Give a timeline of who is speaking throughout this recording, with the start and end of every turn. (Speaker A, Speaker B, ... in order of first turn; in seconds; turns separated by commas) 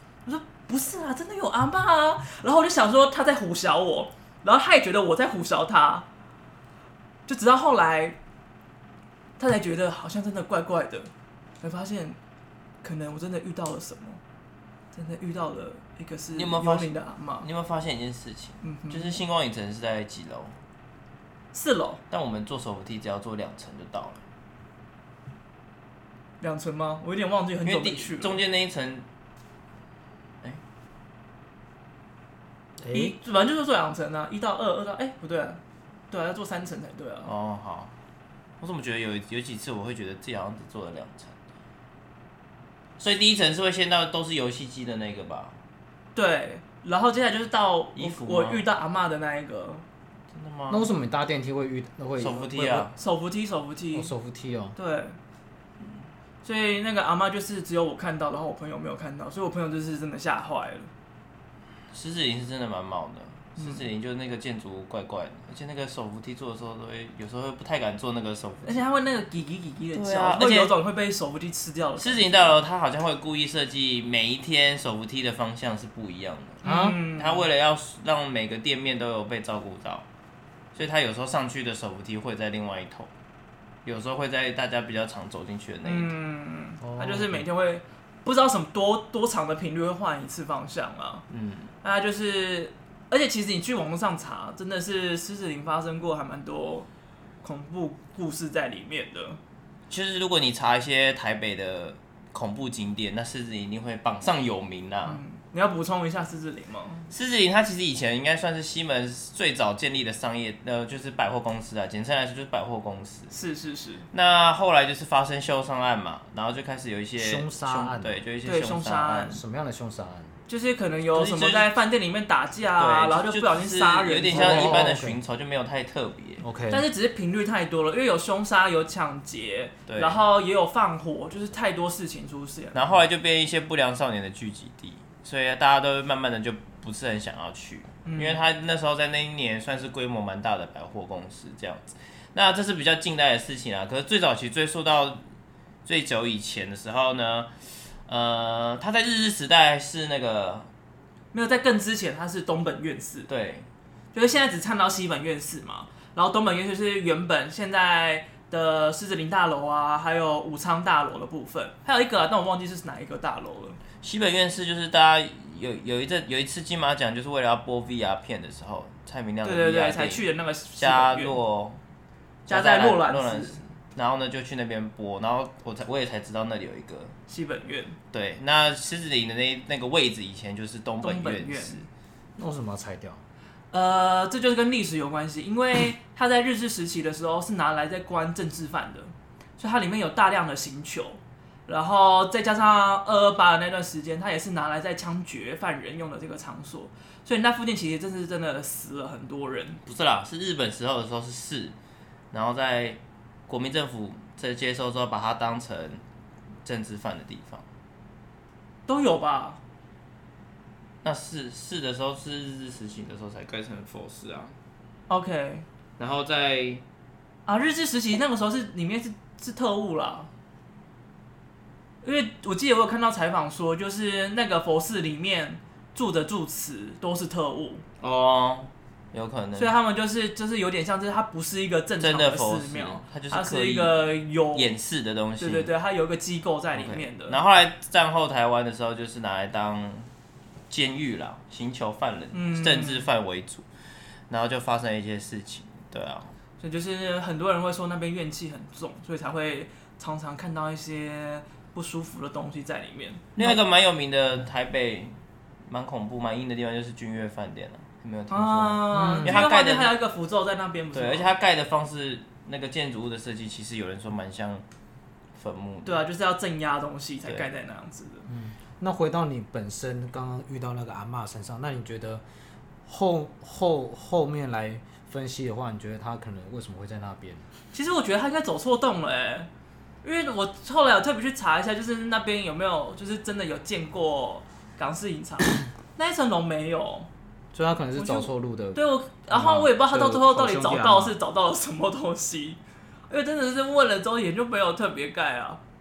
Speaker A: 0.3-6.1, Speaker A: 7.3-8.2, Speaker A: 9.4-11.1, Speaker A: 11.6-12.2, Speaker A: 12.8-14.2, Speaker A: 14.9-17.5, Speaker B: 16.4-20.6, Speaker A: 18.6-19.2, Speaker A: 21.5-22.0, Speaker B: 22.1-24.2, Speaker A: 26.4-28.4, Speaker B: 27.6-29.1, Speaker C: 32.8-33.1, Speaker A: 32.9-37.3, Speaker B: 37.3-38.0, Speaker B: 38.6-41.4, Speaker B: 43.0-45.6, Speaker A: 46.1-49.8, Speaker B: 48.0-48.6, Speaker B: 50.3-50.9, Speaker C: 50.7-52.9, Speaker B: 52.2-52.9, Speaker A: 53.0-54.1, Speaker C: 53.9-54.8, Speaker A: 54.8-55.2, Speaker A: 56.4-60.9, Speaker B: 61.9-68.9, Speaker A: 63.6-63.8, Speaker A: 68.7-72.4, Speaker B: 69.9-70.7, Speaker B: 72.0-80.1, Speaker A: 76.6-77.5, Speaker C: 76.6-77.0, Speaker B: 80.8-83.1, Speaker B: 83.8-86.1, Speaker A: 85.8-91.2, Speaker C: 86.8-87.5, Speaker B: 91.3-91.7, Speaker A: 91.8-96.9, Speaker A: 97.4-99.4, Speaker B: 99.9-105.2, Speaker A: 105.0-107.1, Speaker B: 107.1-113.3, Speaker A: 113.3-114.1, Speaker B: 114.1-119.4, Speaker C: 117.2-118.2, Speaker A: 118.4-119.4, Speaker C: 119.3-120.3, Speaker A: 120.5-124.9, Speaker B: 121.1-121.7, Speaker B: 122.8-126.4, Speaker C: 124.3-125.2, Speaker C: 126.4-126.9, Speaker A: 126.7-132.8, Speaker B: 129.9-130.2, Speaker B: 132.7-145.2, Speaker A: 138.1-138.4, Speaker B: 145.8-150.7, Speaker A: 151.3-153.3, Speaker B: 153.3-153.7, Speaker A: 154.1-163.8, Speaker B: 164.0-171.8, Speaker A: 169.4-171.4, Speaker B: 172.5-177.1, Speaker A: 172.5-173.6, Speaker A: 177.3-178.0, Speaker B: 178.1-181.8, Speaker A: 181.0-181.9, Speaker C: 182.4-183.2, Speaker A: 183.7-199.8, Speaker B: 199.9-201.8, Speaker B: 202.3-206.0, Speaker B: 206.6-207.6, Speaker A: 208.9-209.6, Speaker B: 211.0-214.6, Speaker A: 215.1-215.7, Speaker B: 216.0-216.8, Speaker A: 217.5-220.3, Speaker A: 222.0-227.8, Speaker B: 228.0-229.7, Speaker A: 229.6-234.7, Speaker B: 232.0-235.7, Speaker A: 235.4-237.4, Speaker B: 236.8-240.1, Speaker B: 240.7-243.7, Speaker A: 242.3-243.1, Speaker B: 244.3-246.3, Speaker A: 246.6-253.6, Speaker B: 253.4-260.0, Speaker A: 258.3-261.3, Speaker C: 258.9-259.5, Speaker B: 260.9-264.6, Speaker B: 265.4-266.0, Speaker A: 265.9-268.3, Speaker C: 268.3-272.2, Speaker C: 272.9-277.5, Speaker A: 277.7-279.5, Speaker A: 280.0-287.1, Speaker C: 287.5-291.2, Speaker A: 287.9-295.6